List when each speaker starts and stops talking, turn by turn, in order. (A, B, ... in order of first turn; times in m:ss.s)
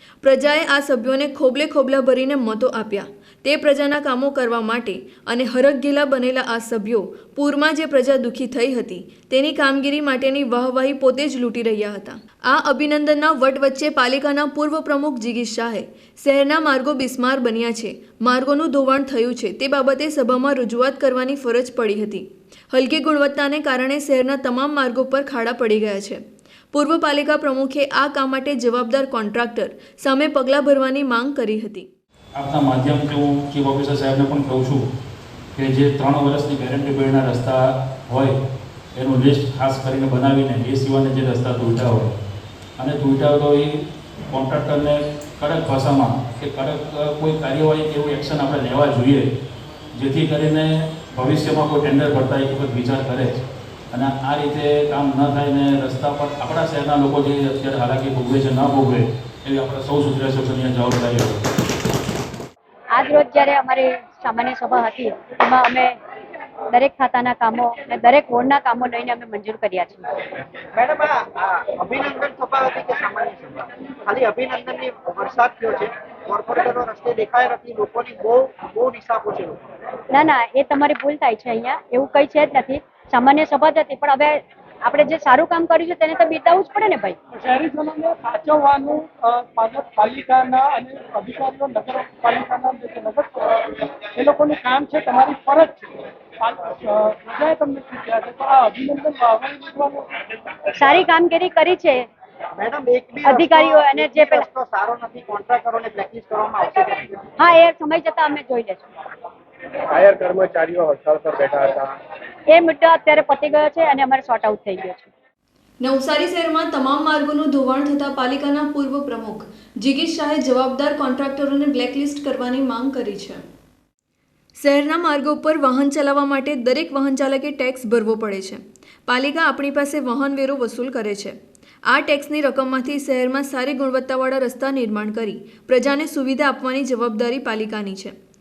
0:00.2-0:26.2 A
0:26.7-0:31.9 A
0:32.4-0:34.8 B
0:35.6-0:38.4 B
0:39.0-0:42.1 B
0:42.8-0:49.3 B
0:49.9-0:53.4 B
0:53.9-1:01.4 B
1:02.9-1:06.0 C
1:06.7-1:10.1 C
1:10.7-1:19.6 D
1:20.1-1:27.2 C
1:27.4-1:40.2 E
1:40.8-1:42.1 C
1:42.6-1:47.3 D
1:43.2-1:44.4 C
1:47.4-1:48.8 C
1:49.9-1:52.0 F
1:52.5-1:55.1 C
1:55.8-2:03.4 A
2:04.6-2:11.4 A
2:11.9-2:18.2 A